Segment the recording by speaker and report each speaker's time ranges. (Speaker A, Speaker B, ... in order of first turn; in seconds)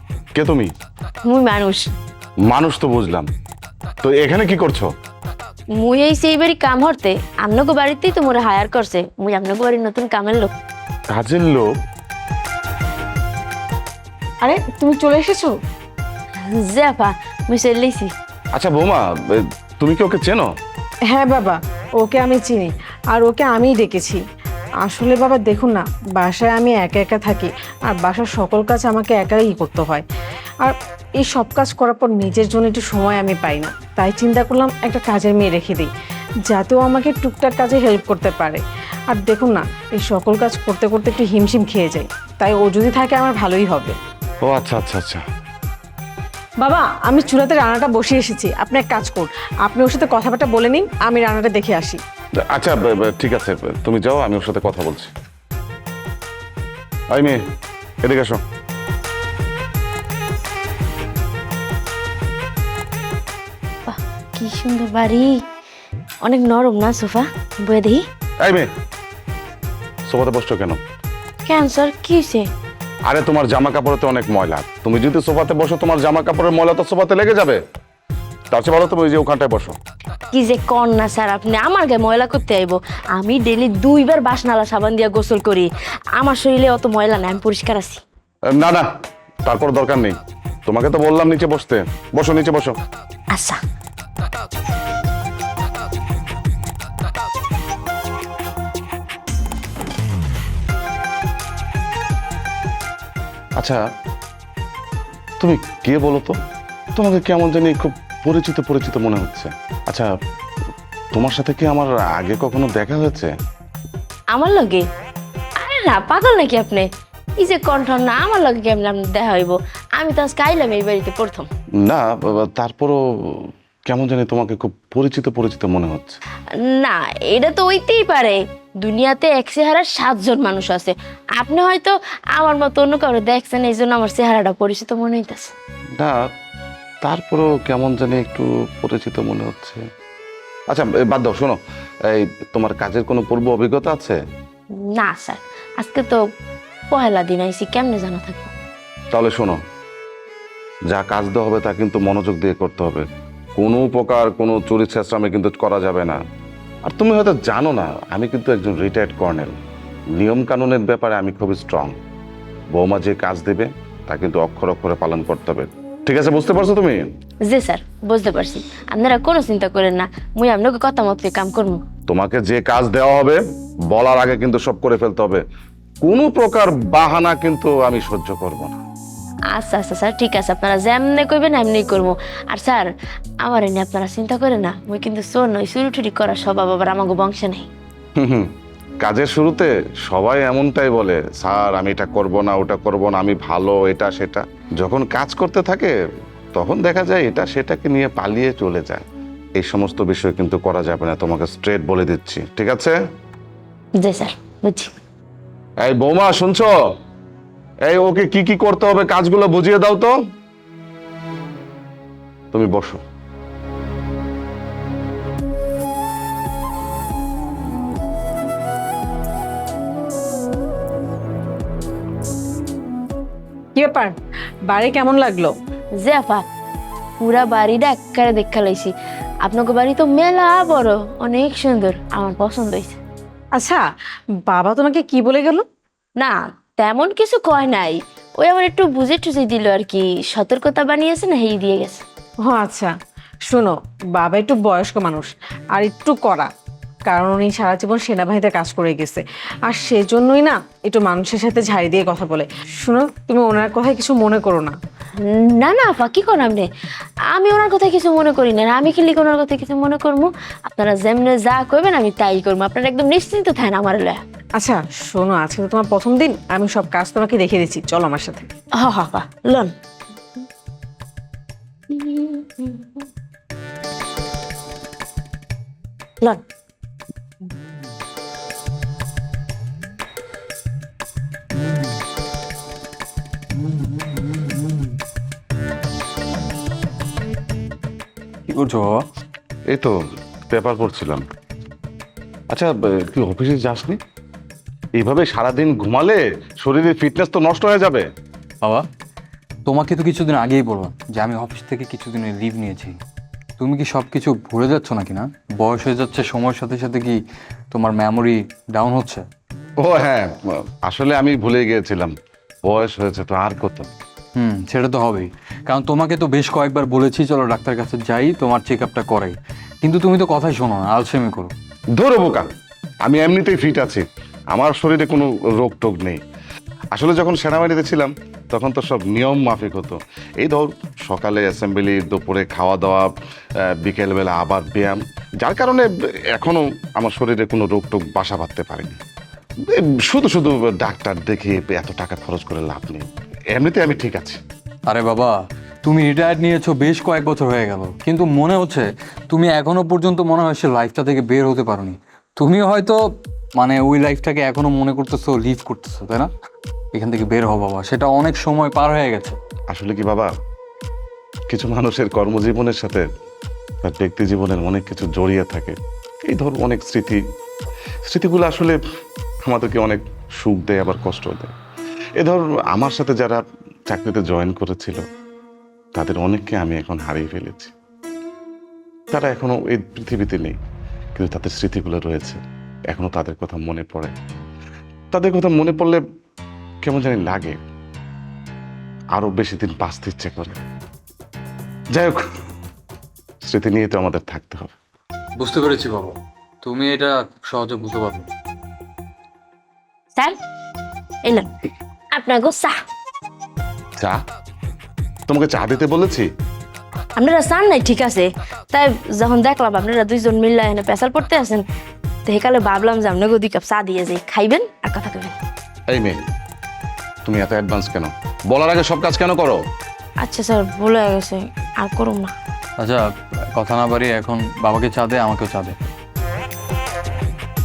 Speaker A: 0.3-0.7, 2.5-3.3, 4.0-4.9, 11.1-11.7, 18.5-20.5, 44.4-45.2, 52.4-55.1, 57.1-57.4, 58.0-58.4, 68.4-68.7, 70.1-70.8, 73.1-77.6, 78.5-79.8, 88.5-88.9, 89.4-92.8, 105.4-106.4, 107.0-110.1, 111.1-113.3, 121.8-126.2, 135.9-136.2, 137.0-139.8, 140.7-144.2, 149.1-149.6, 150.9-153.1, 153.6-156.2, 156.9-159.6, 160.2-162.0, 162.7-167.0, 172.1-175.4, 176.0-178.8, 188.2-188.5, 189.0-195.9, 196.6-199.1, 199.6-203.0, 205.8-206.7, 207.9-210.1, 212.5-213.0, 289.7-290.0, 290.5-291.2, 292.5-294.0, 295.0-298.1, 309.8-313.9, 321.9-322.5, 323.0-326.2, 326.9-333.1, 333.6-339.0, 339.6-344.4, 359.7-360.3, 361.5-363.0, 363.8-367.2, 368.1-368.8, 369.4-371.5, 372.2-375.0, 375.9-377.7, 379.1-380.6, 381.2-384.1, 385.1-386.0, 386.8-387.6, 389.1-390.6, 391.9-392.2, 393.4-394.7, 405.3-406.3, 415.9-416.2, 417.2-419.6
Speaker B: 1.2-1.9, 5.7-10.5, 16.5-18.1, 63.9-65.4, 66.2-68.0, 71.5-72.5, 80.3-88.0, 93.3-93.6, 114.3-114.8, 115.6-116.8, 117.4-121.5, 126.7-135.5, 144.8-146.2, 146.9-148.5, 167.5-171.8, 179.5-182.9, 183.4-187.7, 204.0-204.9, 226.0-226.4, 227.2-228.9, 229.4-233.0, 236.2-242.0, 255.2-256.7, 257.3-264.2, 268.8-269.7, 271.9-273.0, 402.1-402.8, 407.2-411.6, 412.2-415.4, 420.2-422.3
Speaker C: 14.4-15.5, 21.1-24.2, 24.8-30.0, 30.6-35.9, 36.5-44.0, 46.6-52.0, 223.8-224.2, 224.7-225.5, 233.6-233.8, 234.5-235.7, 242.4-242.9, 243.5-246.5, 247.1-254.8, 264.6-268.5
Speaker D: 283.6-284.8, 288.5-289.0, 299.7-302.9, 303.6-307.2, 307.7-309.2, 314.4-321.5, 344.9-353.0, 353.6-356.3, 356.9-359.3, 395.4-398.3, 422.8-425.8